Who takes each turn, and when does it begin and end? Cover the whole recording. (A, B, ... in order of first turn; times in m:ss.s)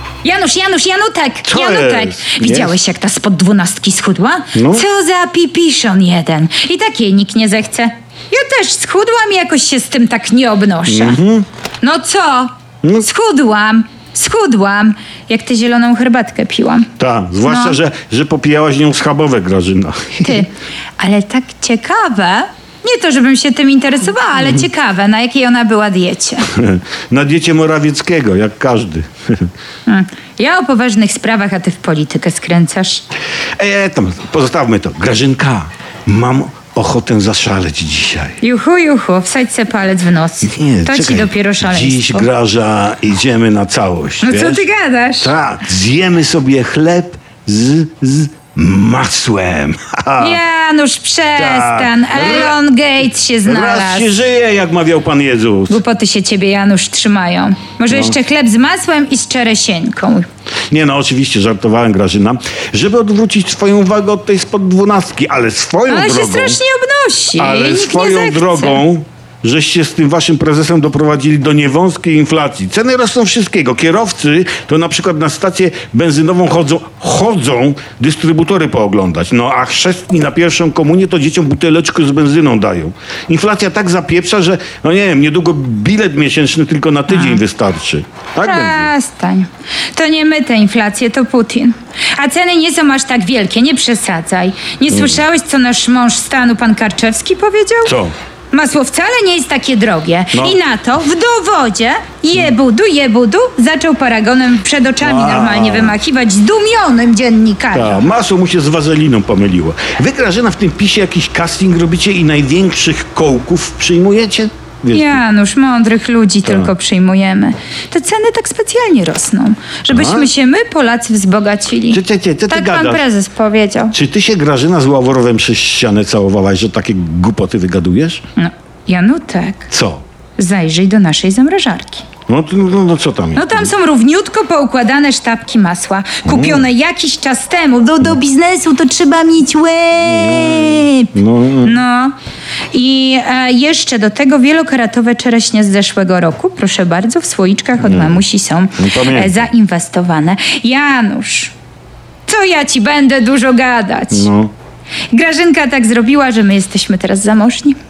0:00.2-0:11.2 A
0:01.4-0:02.8 B
0:04.6-0:04.8 B
0:10.9-0:11.5 B
0:11.8-0:16.9 A
0:17.0-0:20.5 B
0:17.4-0:17.8 A
0:20.2-0:26.5 A
0:26.5-0:29.5 B
0:29.9-0:33.0 A
0:33.6-0:38.4 B
0:38.4-0:42.3 A
0:40.4-0:44.7 B
0:44.2-0:45.3 A
0:45.2-0:50.4 B
0:50.2-0:54.1 A
0:51.4-0:52.6 B
0:53.4-0:55.8 B
0:55.7-1:00.3 A
0:57.9-0:58.2 B
1:00.7-1:06.6 B
1:05.9-1:08.8 A
1:07.4-1:28.9 B
1:27.1-1:27.4 A
1:28.4-1:38.0 A
1:34.9-1:35.2 B
1:37.8-1:38.1 B
1:38.5-1:48.0 A
1:40.3-1:40.6 B
1:45.0-1:46.0 B
1:47.7-1:55.2 B
1:54.9-2:04.0 A
1:56.4-1:56.7 B
1:59.9-2:00.3 B
2:01.9-2:03.0 B
2:03.9-2:08.2 B
2:08.4-2:09.7 A
2:09.7-2:10.0 B
2:10.4-2:12.0 A
2:12.3-2:13.7 B
2:13.4-2:21.1 A
2:16.2-2:16.7 B
2:20.0-2:21.8 B
2:21.6-2:22.2 A
2:22.7-2:31.5 A
2:27.8-2:28.2 B
2:28.8-2:29.5 B
2:32.3-2:34.3 A
2:34.1-2:34.5 B
2:35.1-2:37.8 A